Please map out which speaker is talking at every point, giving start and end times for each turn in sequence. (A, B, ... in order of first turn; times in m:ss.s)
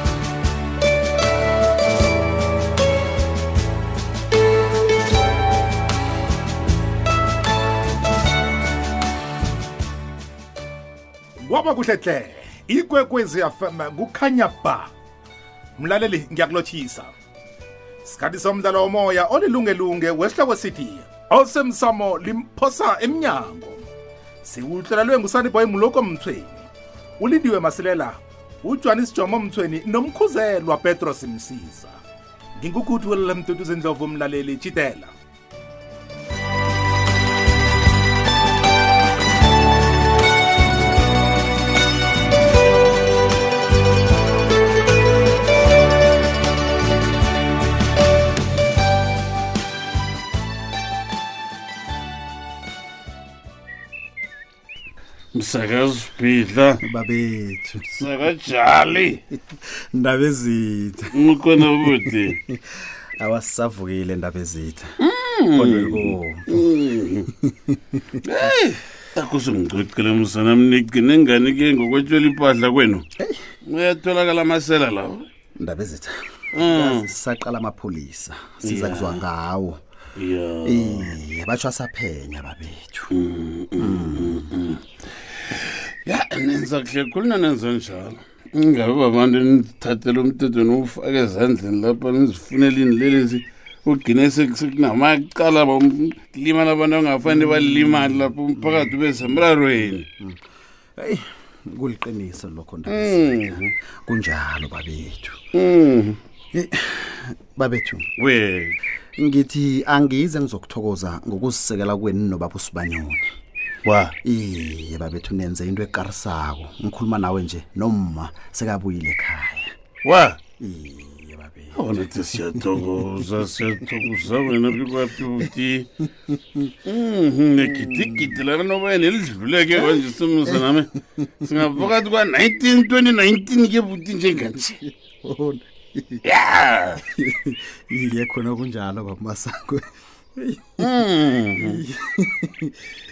0:11.4-0:14.9 A
0:15.8-0:17.1 A
0:18.0-0:23.9 A
0:24.4-0:26.7 A
0:27.2-0:32.0 A
0:32.6-0:35.1 A
0:55.3-0:56.8 B
0:56.8-0:57.9 C
0:58.0-0:59.2 B
0:59.5-1:02.6 C
1:01.1-1:02.4 B
1:03.2-1:05.0 C
1:05.0-1:07.3 B
1:05.5-1:08.1 C
1:08.2-1:13.0 B
1:13.7-1:15.3 B
1:15.6-1:19.8 C
1:16.5-1:17.1 B
1:18.6-1:19.2 B
1:20.2-1:21.2 B
1:20.6-1:23.2 C
1:23.2-1:24.8 B
1:23.8-1:24.5 C
1:26.1-1:40.1 B
1:37.5-1:38.1 C
1:38.6-1:40.4 C
1:41.0-1:45.4 C
1:42.9-1:43.7 B
1:45.6-1:46.2 B
1:46.5-1:48.1 C
1:48.2-1:48.8 B
1:49.2-1:53.3 C
1:53.9-1:54.2 B
1:54.2-1:59.7 C
2:00.0-2:00.4 B
2:00.6-2:02.0 C
2:01.8-2:05.9 B
2:06.9-2:10.9 B
2:07.8-2:08.4 C
2:09.8-2:10.8 C
2:11.4-2:14.7 B
2:14.3-2:16.2 C
2:16.3-2:17.0 B
2:17.0-2:19.8 C
2:20.4-2:22.7 C
2:20.8-2:21.8 B